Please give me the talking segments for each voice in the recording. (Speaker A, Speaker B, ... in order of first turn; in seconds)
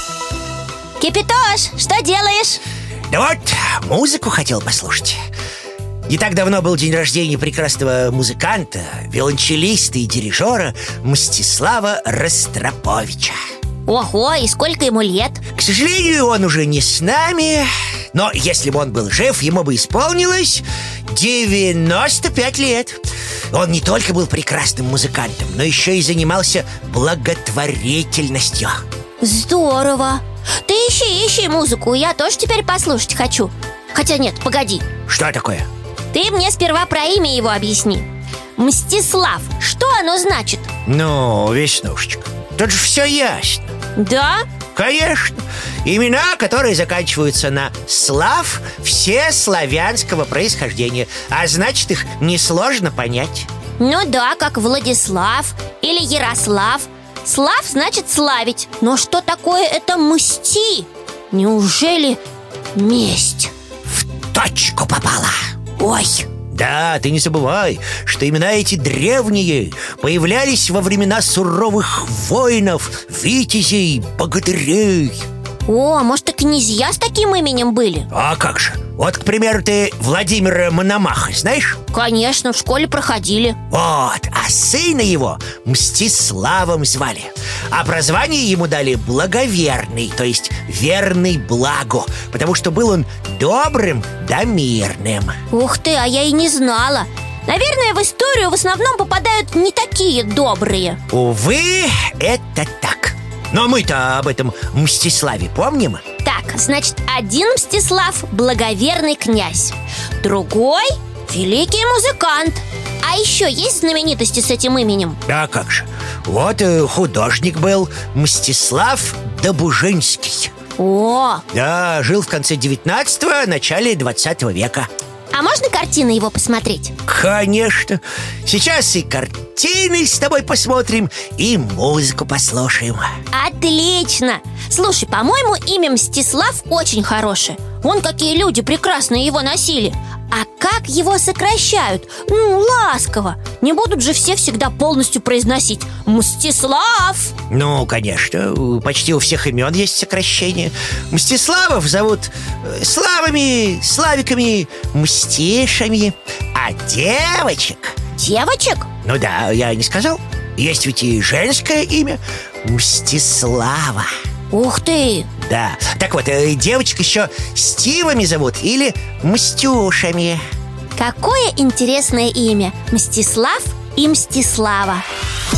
Speaker A: 1.0-2.6, 13.8-15.4, 29.2-34.9, 36.1-40.7, 44.0-44.4, 53.8-62.2, 62.7-63.5, 65.8-66.3, 75.7-78.1, 81.9-83.5, 95.5-101.0, 106.2-115.2, 120.8-121.4, 125.3-126.9, 133.3-147.3, 158.1-158.9, 164.5-165.3, 170.9-175.0
Speaker B: 3.1-5.2, 6.1-13.3, 15.5-28.8, 35.1-35.7, 40.9-43.7, 44.7-53.5, 64.3-65.4, 66.5-75.2, 78.1-81.8, 83.7-95.4, 101.1-106.0, 115.2-120.5, 121.5-124.9, 127.0-133.1, 147.5-157.9, 159.0-164.1, 165.4-170.4